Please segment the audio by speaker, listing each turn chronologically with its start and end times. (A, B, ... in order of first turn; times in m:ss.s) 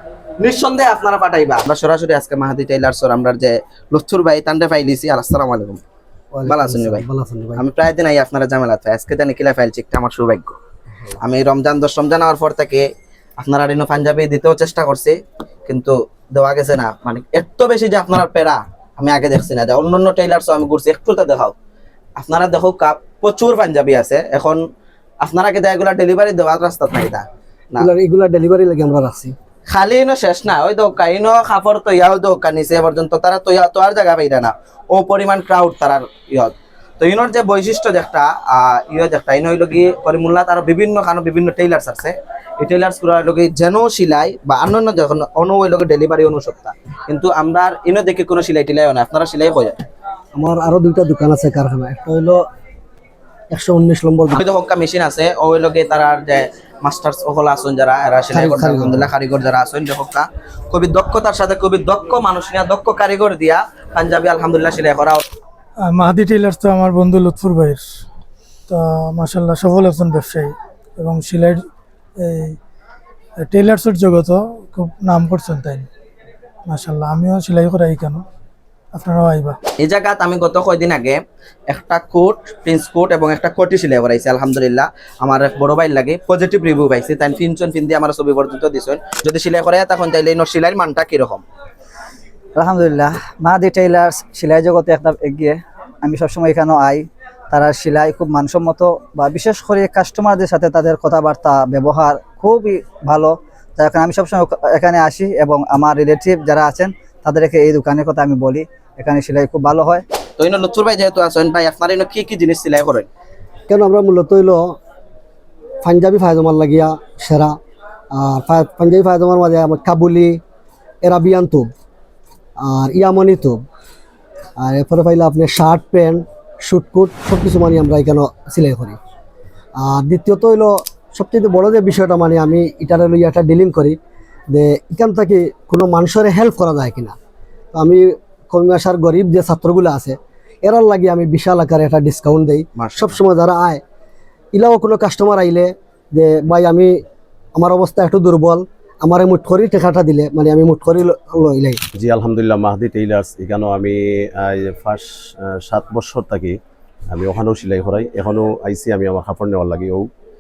0:00.4-0:05.8 A
0:06.3-0:07.6 B
0:06.5-0:07.0 A
0:07.6-0:10.6 A
0:11.2-0:12.9 A
0:13.4-0:21.5 A
0:22.2-0:24.6 A
0:25.2-0:27.9 A
0:27.8-0:29.4 B
0:29.7-0:49.8 A
0:50.4-0:52.4 B
0:53.5-0:54.4 B
0:54.3-1:05.2 A
0:58.3-0:59.1 B
1:05.8-1:07.8 C
1:08.7-1:11.6 C
1:12.2-1:12.6 C
1:13.4-1:15.9 C
1:16.7-1:18.2 C
1:19.0-1:19.6 C
1:19.8-1:31.4 A
1:32.6-1:50.0 D
1:50.4-1:53.1 A
1:53.7-1:54.8 B
1:55.8-1:57.6 B
1:58.1-2:00.4 B
2:01.0-2:01.7 B
2:02.6-2:03.6 B
2:04.6-2:09.0 B
2:09.8-2:14.0 B
2:14.5-2:17.2 B
2:17.7-2:23.8 B
2:22.8-2:23.2 A
2:24.5-2:27.0 B
2:27.6-2:31.8 B
2:31.9-2:36.6 E
2:37.1-2:40.1 E